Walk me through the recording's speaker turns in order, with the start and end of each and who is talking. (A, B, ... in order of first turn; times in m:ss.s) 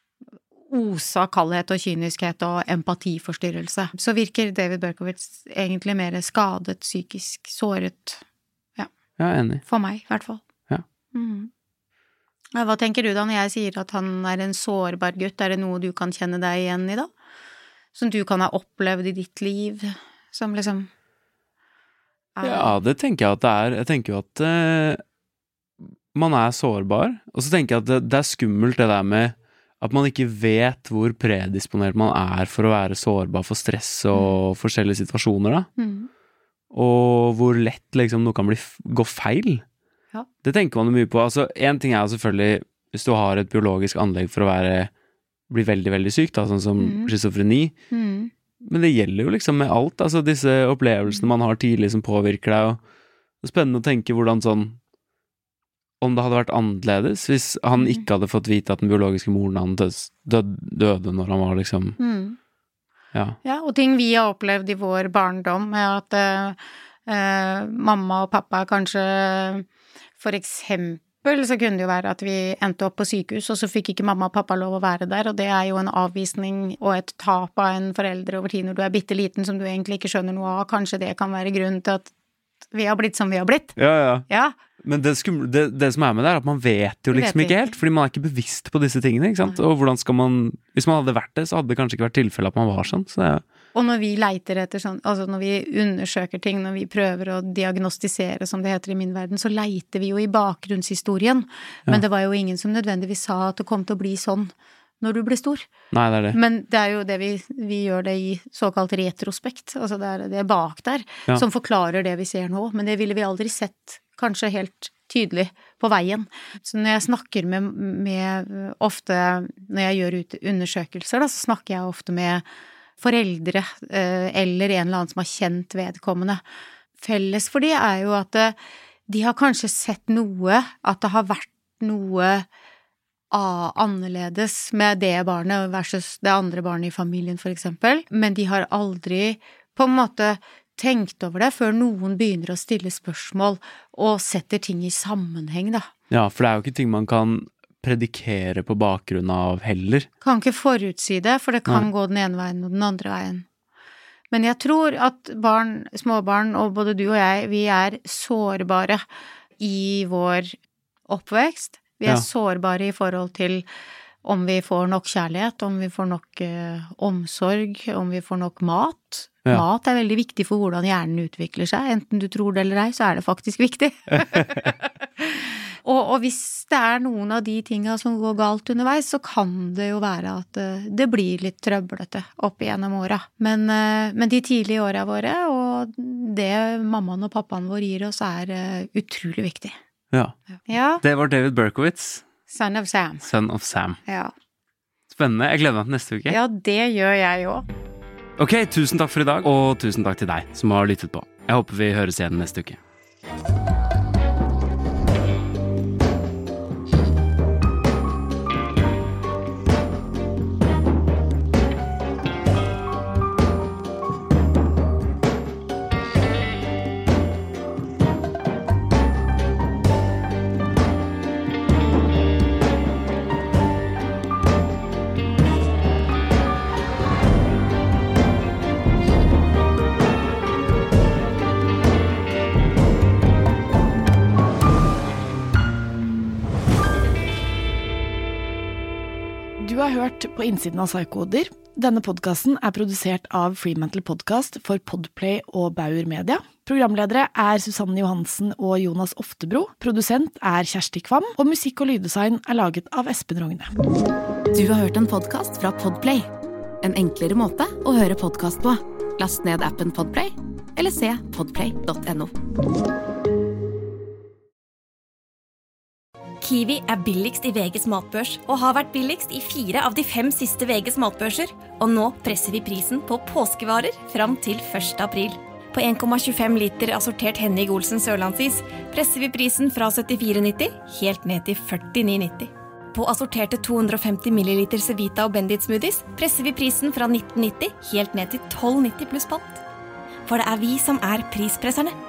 0:00.7-0:08.2 A
0:09.2-0:09.6 B
0:09.7-0:10.4 A
0:11.1-0:11.5 A
0:12.6-0:17.1 A
0:18.0-0:20.9 A
0:22.4-0:22.8 A
0:22.4-0:25.0 B
0:26.1-0:35.7 B
0:34.1-0:34.4 A
0:35.8-0:36.1 A
0:36.7-0:39.6 B
0:40.4-0:44.9 B
0:45.5-0:47.8 B
0:46.8-0:47.1 A
0:47.9-0:48.3 A
0:48.6-0:52.8 B
0:53.4-0:54.8 B
0:56.0-1:02.0 B
0:57.8-0:58.0 A
1:02.0-1:02.4 A
1:03.4-1:09.7 A
1:10.2-1:22.1 A
1:22.7-1:23.8 A
1:23.8-1:24.2 B
1:24.3-1:24.5 A
1:24.8-1:33.4 B
1:27.1-1:27.8 A
1:33.7-1:45.7 A
1:45.9-1:46.4 B
1:46.3-2:02.4 A
2:03.0-2:06.4 A
2:07.0-2:08.6 A
2:09.1-2:12.5 A
2:13.3-2:25.9 A
2:26.1-2:30.1 B
2:30.2-2:33.5 A
2:34.3-2:39.0 A
2:39.6-2:40.6 A
2:41.1-2:43.6 A
2:44.2-3:09.8 A
2:54.4-2:54.7 B
3:10.7-3:11.0 A
3:11.0-3:12.2 B
3:12.5-3:13.3 A
3:13.2-3:14.0 B
3:14.1-3:14.3 A
3:15.1-3:16.4 B
3:16.3-3:17.6 A
3:18.4-3:22.8 B
3:59.6-4:13.7 C
4:14.5-4:16.3 D
4:16.8-4:22.3 D
4:26.4-4:49.6 E
4:50.3-4:52.0 E